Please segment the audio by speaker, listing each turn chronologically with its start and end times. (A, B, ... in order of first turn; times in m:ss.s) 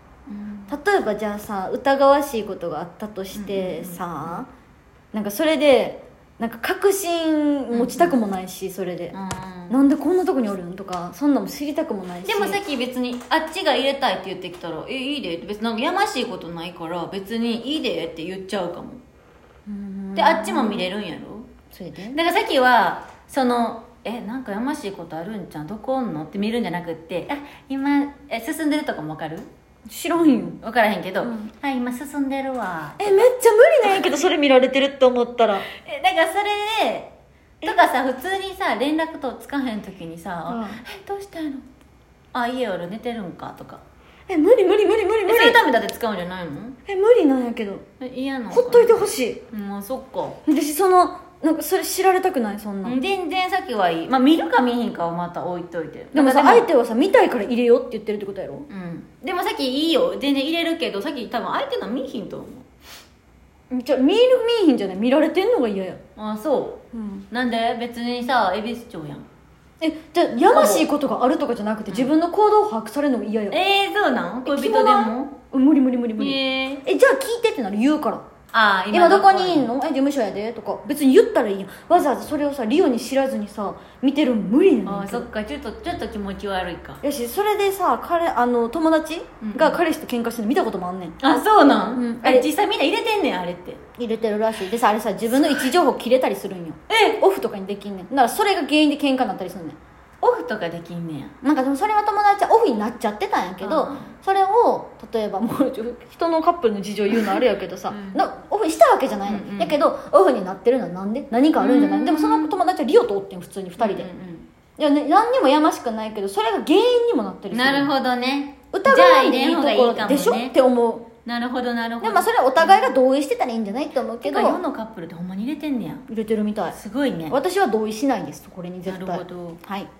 0:00.3-0:00.8 A
0:00.7-0:04.5 B
0:03.3-0:04.4 A
0:05.1-0:09.2 B
0:07.7-0:08.2 A
0:09.1-0:09.8 A
0:09.7-0:12.6 B
0:12.2-0:19.0 A
0:19.6-0:20.8 B
0:20.1-0:21.5 A
0:21.7-0:22.2 B
0:22.1-0:29.5 A
0:29.9-0:30.6 B
0:30.1-0:33.3 A
0:31.2-0:31.5 B
0:33.0-0:35.6 B
0:35.8-0:37.1 A
0:37.6-0:41.6 A
0:40.5-0:40.8 B
0:42.3-0:43.8 A
0:44.3-0:45.6 B
0:45.2-0:46.8 A
0:46.8-0:47.8 B
0:48.0-0:50.4 A
0:48.5-0:49.4 B
0:50.4-0:53.0 B
0:52.8-0:56.7 A
0:56.1-0:58.7 B
0:58.7-1:02.7 A
1:03.7-1:06.0 B
1:06.2-1:09.3 A
1:06.9-1:07.2 B
1:09.8-1:13.6 B
1:10.5-1:10.9 A
1:11.9-1:12.1 A
1:13.5-1:15.4 A
1:14.4-1:18.2 B
1:16.2-1:16.8 A
1:18.5-1:19.7 A
1:18.9-1:25.3 B
1:24.8-1:27.0 A
1:27.0-1:31.2 B
1:29.4-1:29.8 A
1:31.2-1:33.8 A
1:31.9-1:32.5 B
1:34.0-1:39.8 B
1:35.4-1:35.7 A
1:36.9-1:37.2 A
1:40.2-1:41.3 A
1:41.4-1:54.1 B
1:43.6-1:44.1 A
1:47.1-1:48.2 A
1:49.2-1:49.8 A
1:51.6-1:52.5 A
1:53.8-1:54.5 A
1:54.8-1:57.9 B
1:57.5-2:00.5 A
1:58.7-2:01.1 B
2:01.2-2:02.9 A
2:02.0-2:04.6 B
2:04.2-2:06.0 A
2:06.1-2:06.8 B
2:06.7-2:07.4 A
2:07.3-2:09.9 B
2:08.8-2:09.6 A